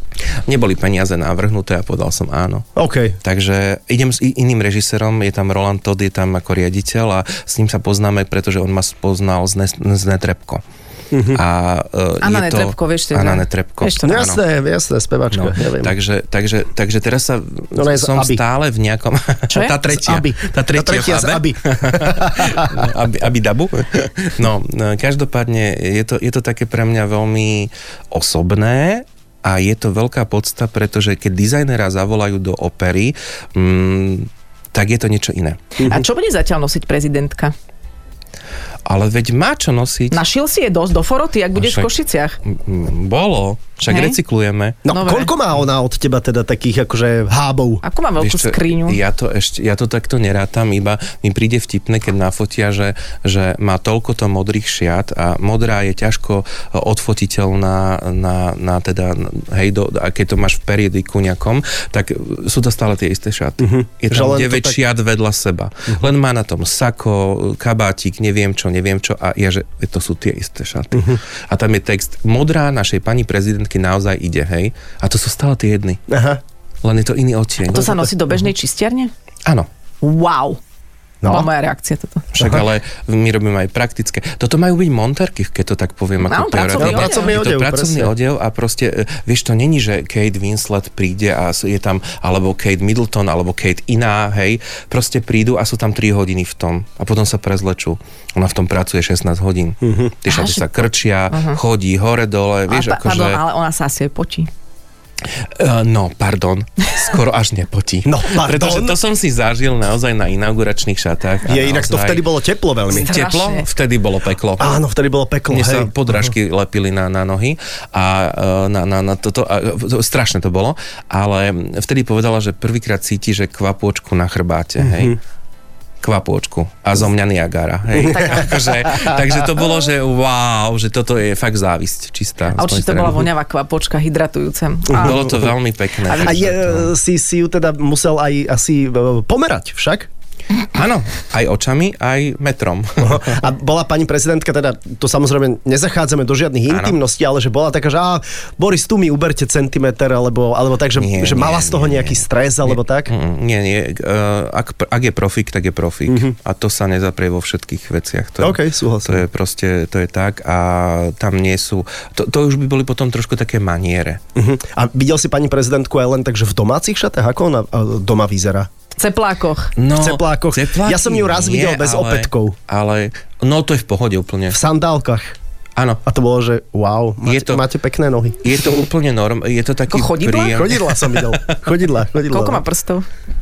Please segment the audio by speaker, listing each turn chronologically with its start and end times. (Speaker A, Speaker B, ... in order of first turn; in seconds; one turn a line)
Speaker A: 0.5-2.7
Speaker B: 2.8-3.2
Speaker A: 3.2-10.6
Speaker B: 11.1-11.4
Speaker A: 11.3-14.4
Speaker C: 12.2-14.3
Speaker B: 14.0-15.9
Speaker A: 15.3-35.6
Speaker B: 17.8-18.4
Speaker C: 19.5-19.8
Speaker B: 19.9-22.9
Speaker C: 35.8-37.5
Speaker A: 38.9-40.2
Speaker C: 40.1-42.4
Speaker A: 41.6-41.9
Speaker A: 42.5-44.8
Speaker C: 43.9-44.2
Speaker B: 44.8-47.8
Speaker C: 44.9-45.3
Speaker C: 47.8-49.0
Speaker A: 48.2-76.0
Speaker B: 63.6-64.8
Speaker B: 76.1-76.4
Speaker A: 76.8-78.1
Speaker C: 77.7-79.1
Speaker C: 80.0-80.6
Speaker B: 81.2-81.5
Speaker C: 81.2-82.3
Speaker A: 82.3-103.4
Speaker B: 82.4-82.6
Speaker C: 86.2-87.3
Speaker B: 86.8-88.1
Speaker B: 99.8-100.1
Speaker C: 100.3-100.6
Speaker C: 101.3-101.6
Speaker C: 102.7-104.5
Speaker A: 105.5-112.2
Speaker B: 108.0-109.0
Speaker B: 111.5-113.1
Speaker C: 112.9-113.7
Speaker A: 112.9-114.7
Speaker B: 114.6-116.3
Speaker A: 115.5-125.2
Speaker B: 124.8-125.2
Speaker A: 126.0-133.3
Speaker B: 128.0-128.3
Speaker C: 132.6-135.4
Speaker B: 134.9-135.5
Speaker A: 135.0-136.9
Speaker B: 136.2-140.1
Speaker A: 140.7-143.4
Speaker B: 143.0-153.1
Speaker A: 146.7-147.0
Speaker A: 151.0-164.2
Speaker B: 156.1-156.3
Speaker B: 158.4-159.2
Speaker B: 164.3-168.7
Speaker C: 169.0-169.7
Speaker A: 169.8-174.6
Speaker B: 169.9-172.6
Speaker B: 174.5-175.3
Speaker A: 175.8-176.0
Speaker B: 176.1-178.4
Speaker A: 177.2-177.6
Speaker A: 178.4-181.5
Speaker C: 179.9-180.7
Speaker B: 180.5-182.6
Speaker C: 182.3-183.1